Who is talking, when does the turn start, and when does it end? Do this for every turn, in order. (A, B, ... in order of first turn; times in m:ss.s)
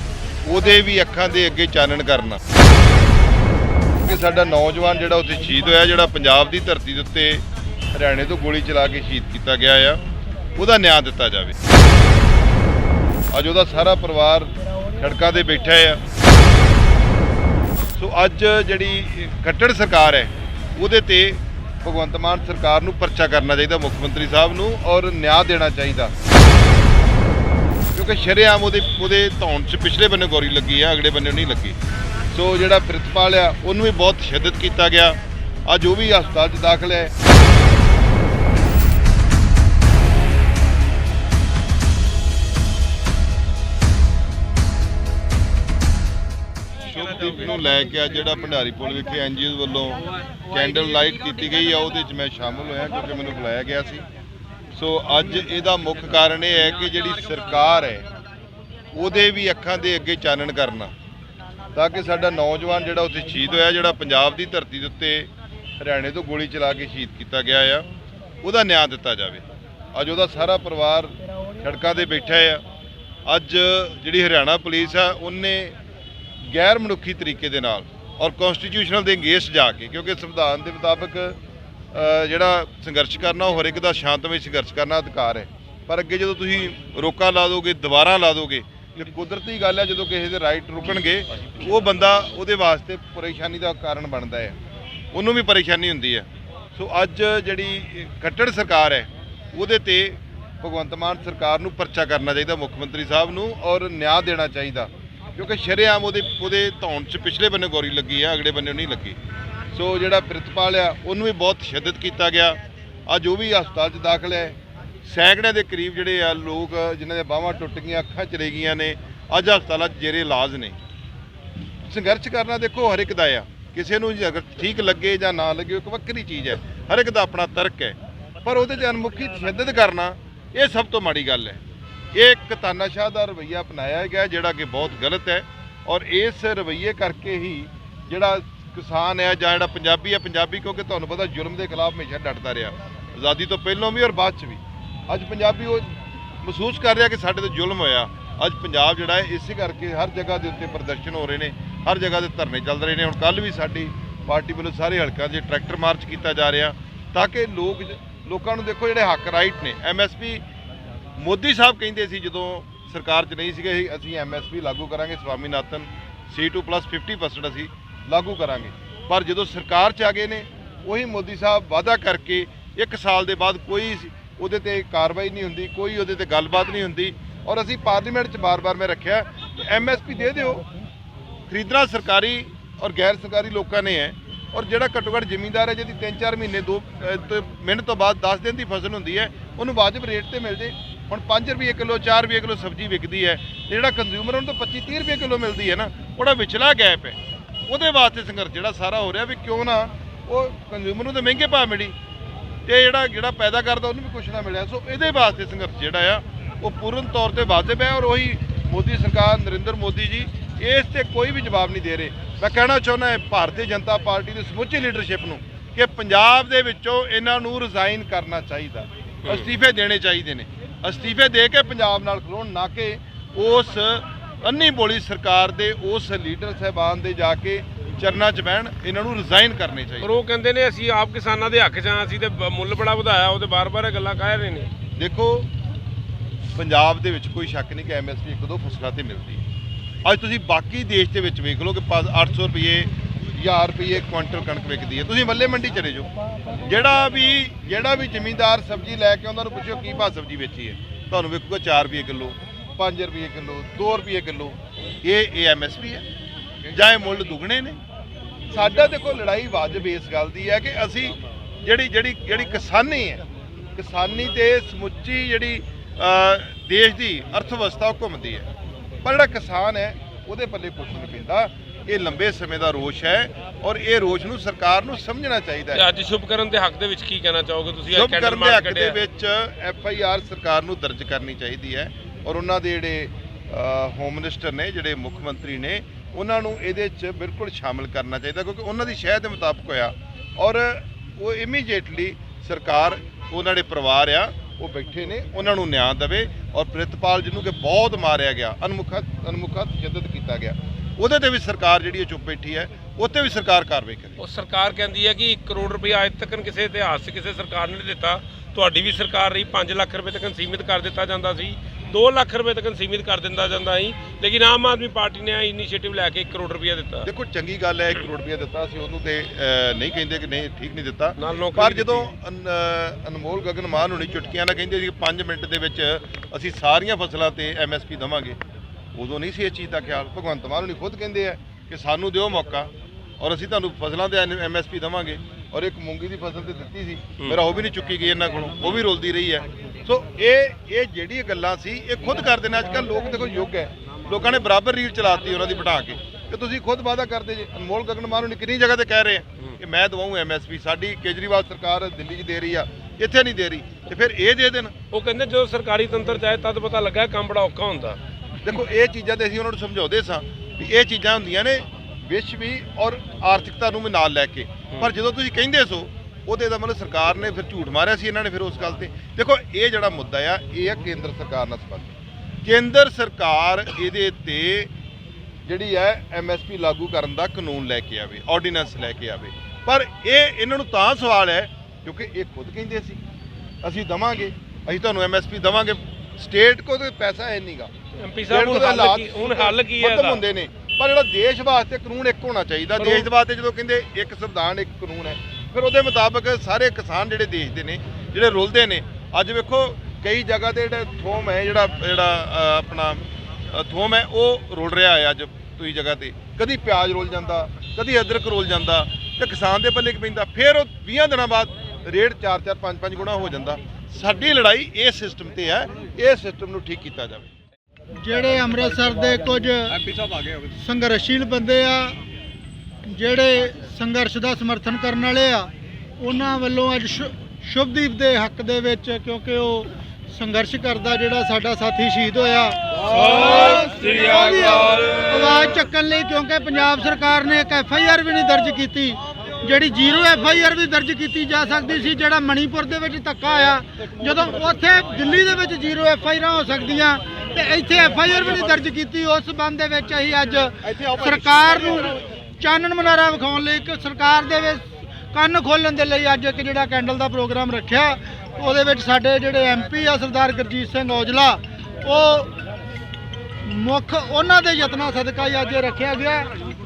0:00.4-0:02.4 A
0:04.0-0:10.0 A
0:10.5-0:11.5 A
0:13.3-0:16.0 A
0:18.0-0:26.1 A
0:27.9-0:31.8 A
0:32.3-0:37.1 A
0:46.8-0:54.0 A
0:54.7-0:58.0 A
0:58.9-1:00.9 A
1:01.7-1:07.9 A
1:08.4-1:12.6 A
1:13.3-1:15.8 A
1:16.4-1:21.4 A
1:21.9-1:34.6 A
1:35.1-1:49.2 A
1:49.7-2:00.8 A
2:01.9-2:11.6 A
2:12.1-2:25.9 A
2:26.4-2:40.4 A
2:41.2-3:00.6 A
3:01.5-3:22.0 A
3:22.7-3:50.1 A
3:50.0-3:54.7 B
3:55.0-3:55.5 A
3:56.5-3:59.4 A
4:00.0-4:16.0 A
4:16.7-4:17.8 A
4:18.5-4:23.2 A
4:23.8-4:28.4 A
4:29.0-4:35.8 A
4:35.8-4:39.0 B
4:37.9-5:04.2 A
5:04.2-5:17.1 B
5:17.0-5:28.4 A
5:21.2-5:22.1 B
5:28.9-5:54.7 A
5:54.9-5:58.0 B
5:58.4-6:14.7 A
6:15.4-6:23.0 A
6:23.6-6:27.7 A
6:28.0-6:30.2 B
6:28.3-6:57.3 A
6:32.8-6:33.1 B
6:58.0-6:59.8 C
7:00.5-7:02.0 C
7:02.8-7:42.3 C
7:12.8-7:15.1 B
7:30.7-7:31.9 B
7:43.4-7:46.3 C